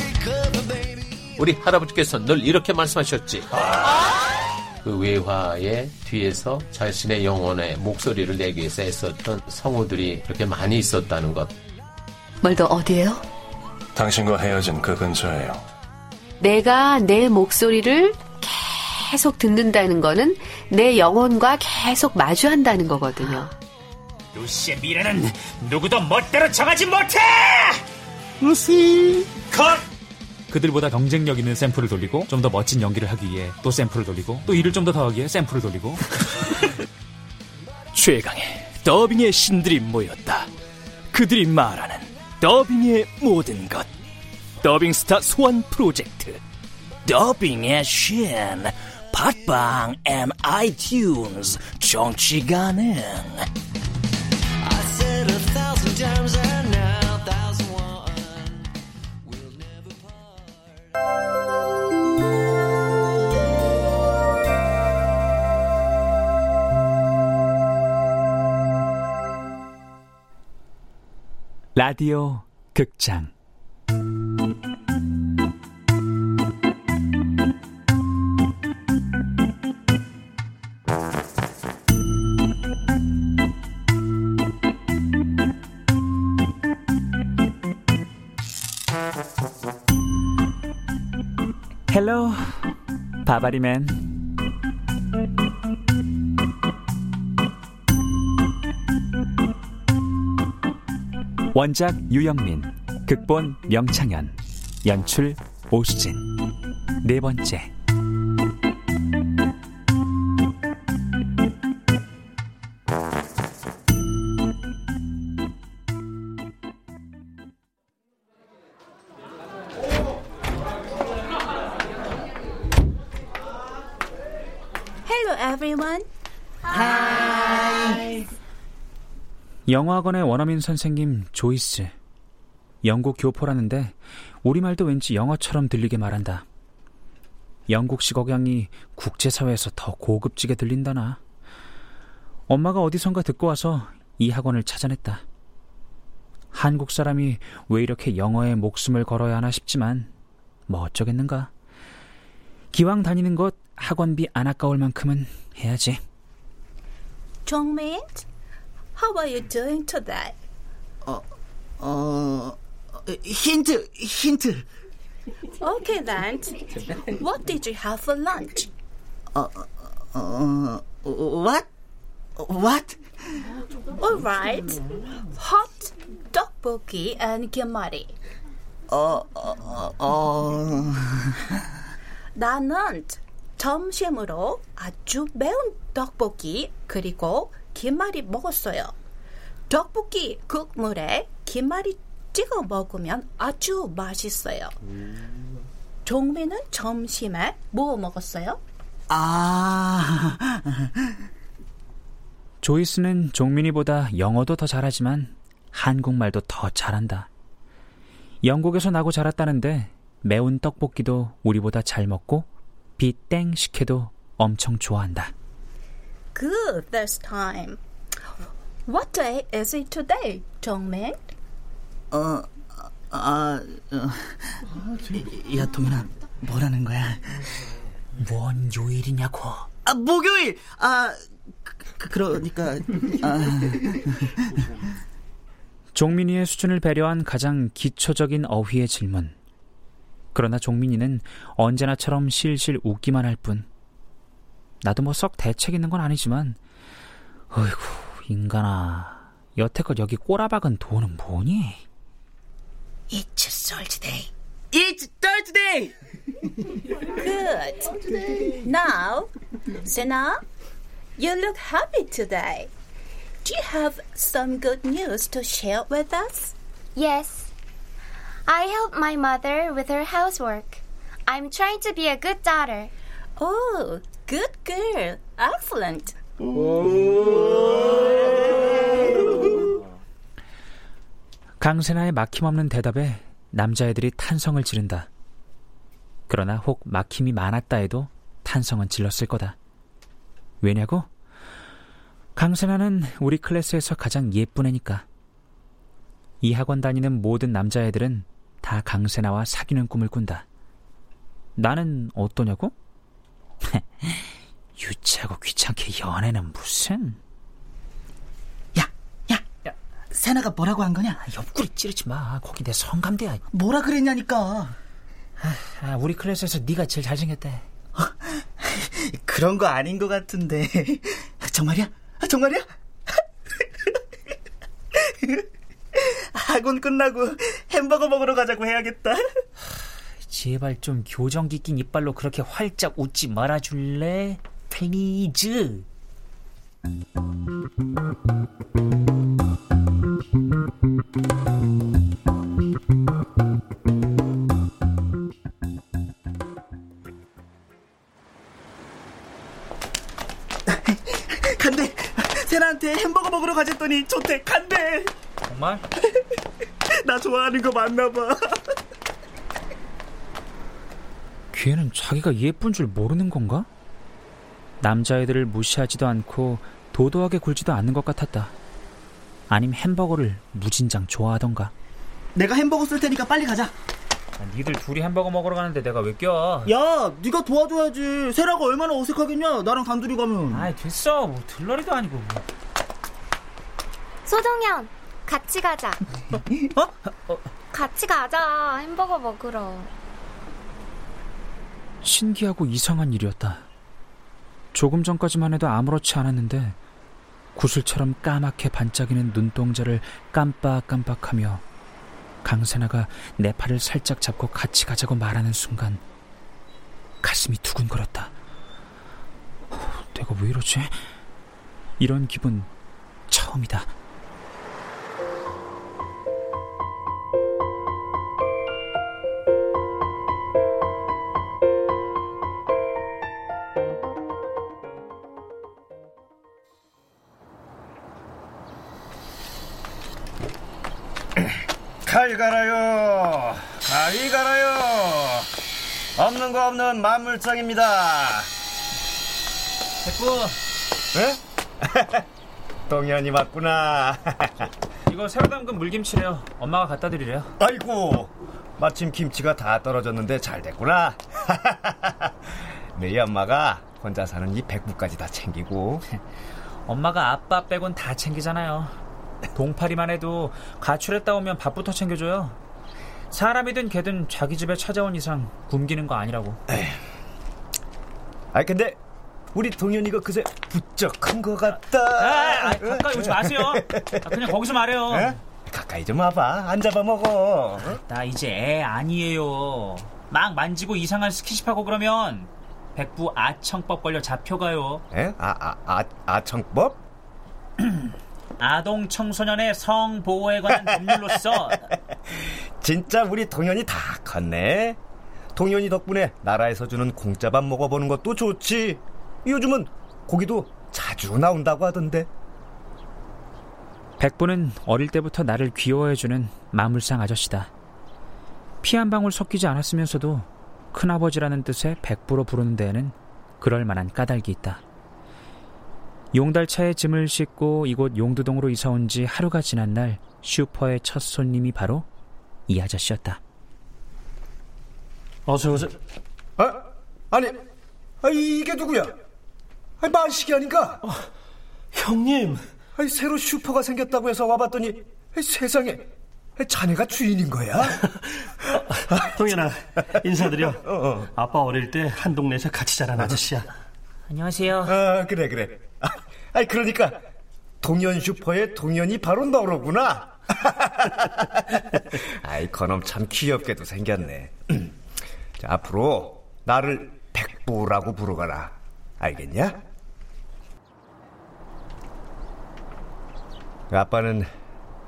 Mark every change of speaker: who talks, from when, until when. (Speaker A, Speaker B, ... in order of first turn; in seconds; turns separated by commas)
Speaker A: 1.4-3.7, Speaker A: 4.8-11.5, Speaker B: 12.4-13.2, Speaker A: 14.0-15.6, Speaker B: 16.4-23.5, Speaker C: 24.4-27.8, Speaker C: 28.5-28.9, Speaker C: 30.5-36.0, Speaker D: 38.0-40.3, Speaker D: 41.2-41.9, Speaker D: 42.4-43.8, Speaker D: 44.6-46.2, Speaker D: 47.1-53.4, Speaker C: 71.7-73.3, Speaker C: 91.9-92.7, Speaker C: 93.2-94.1, Speaker C: 101.5-106.3, Speaker C: 107.0-107.7, Speaker E: 125.0-126.1, Speaker F: 126.7-128.1, Speaker C: 129.7-131.9, Speaker C: 132.8-136.4, Speaker C: 137.7-141.2, Speaker C: 142.5-145.2, Speaker C: 146.5-150.1, Speaker C: 150.7-151.5, Speaker C: 152.7-156.0, Speaker E: 157.4-158.2, Speaker E: 158.9-160.3, Speaker F: 161.8-164.6, Speaker E: 165.6-168.7, Speaker F: 169.3-171.7, Speaker F: 172.4-173.0, Speaker E: 174.0-178.1, Speaker F: 178.9-181.4, Speaker E: 182.3-188.9, Speaker E: 189.7-194.7, Speaker E: 196.0-198.6, Speaker F: 199.1-200.9, Speaker C: 202.6-207.3, Speaker C: 208.4-215.3, Speaker E: 216.3-217.8, Speaker E: 218.9-221.2, Speaker F: 222.1-227.4, Speaker C: 228.2-229.7, Speaker F: 229.8-234.3, Speaker C: 235.9-239.3, Speaker C: 240.3-243.7, Speaker C: 244.8-246.6, Speaker C: 247.5-251.8, Speaker C: 253.1-254.3, Speaker F: 254.7-255.9, Speaker E: 257.2-257.9, Speaker E: 258.5-259.3, Speaker E: 259.8-260.4, Speaker E: 261.2-262.7, Speaker E: 263.4-266.5, Speaker G: 266.9-267.5, Speaker G: 268.5-272.9, Speaker E: 273.4-276.2, Speaker C: 281.6-285.1, Speaker C: 286.3-289.6, Speaker C: 290.6-291.1, Speaker C: 292.3-295.1, Speaker C: 296.4-300.4, Speaker C: 301.6-302.7, Speaker C: 303.7-307.2, Speaker F: 308.7-309.4, Speaker F: 310.1-311.2, Speaker C: 311.2-313.4, Speaker F: 313.5-314.8, Speaker C: 315.4-317.6, Speaker F: 318.0-322.7, Speaker F: 325.1-325.4, Speaker F: 325.9-329.2, Speaker C: 330.2-335.9, Speaker F: 350.9-355.1, Speaker C: 355.5-355.8, Speaker F: 356.9-358.7, Speaker C: 361.5-363.7, Speaker C: 364.8-368.5, Speaker C: 369.5-371.7, Speaker F: 372.3-373.7, Speaker C: 374.4-376.7, Speaker F: 376.6-380.7, Speaker C: 380.5-382.4, Speaker G: 384.2-386.0, Speaker C: 386.8-387.4, Speaker G: 387.7-389.9, Speaker C: 392.0-393.6, Speaker C: 394.7-396.8, Speaker C: 397.5-401.6, Speaker C: 402.4-406.0, Speaker C: 407.2-408.3, Speaker C: 409.7-411.1, Speaker C: 412.0-412.7, Speaker C: 413.3-413.9, Speaker H: 432.0-435.5, Speaker H: 436.2-438.5, Speaker C: 440.0-440.5, Speaker H: 441.1-442.2, Speaker H: 442.9-444.7, Speaker C: 445.1-447.5, Speaker H: 447.6-452.3, Speaker H: 452.9-456.0, Speaker C: 456.9-458.9, Speaker C: 459.5-462.6, Speaker C: 463.3-466.6, Speaker H: 466.7-466.9, Speaker H: 468.5-469.0, Speaker H: 469.5-474.3, Speaker C: 472.2-475.4, Speaker H: 475.1-478.0, Speaker C: 477.8-485.0, Speaker H: 485.1-487.0, Speaker C: 487.8-491.8, Speaker H: 492.3-495.0, Speaker H: 495.5-502.3, Speaker C: 504.2-507.7, Speaker C: 508.8-514.8, Speaker C: 516.3-522.1, Speaker C: 522.7-523.4, Speaker I: 525.5-525.9, Speaker H: 526.6-527.6, Speaker H: 528.2-529.1, Speaker H: 530.0-531.0, Speaker I: 531.9-532.6, Speaker H: 533.0-536.0, Speaker H: 536.6-538.1, Speaker I: 539.1-540.8, Speaker H: 540.8-541.3, Speaker I: 541.3-543.7, Speaker C: 544.3-545.0, Speaker H: 544.8-547.2, Speaker H: 547.8-554.9, Speaker H: 555.6-559.8, Speaker H: 563.9-564.5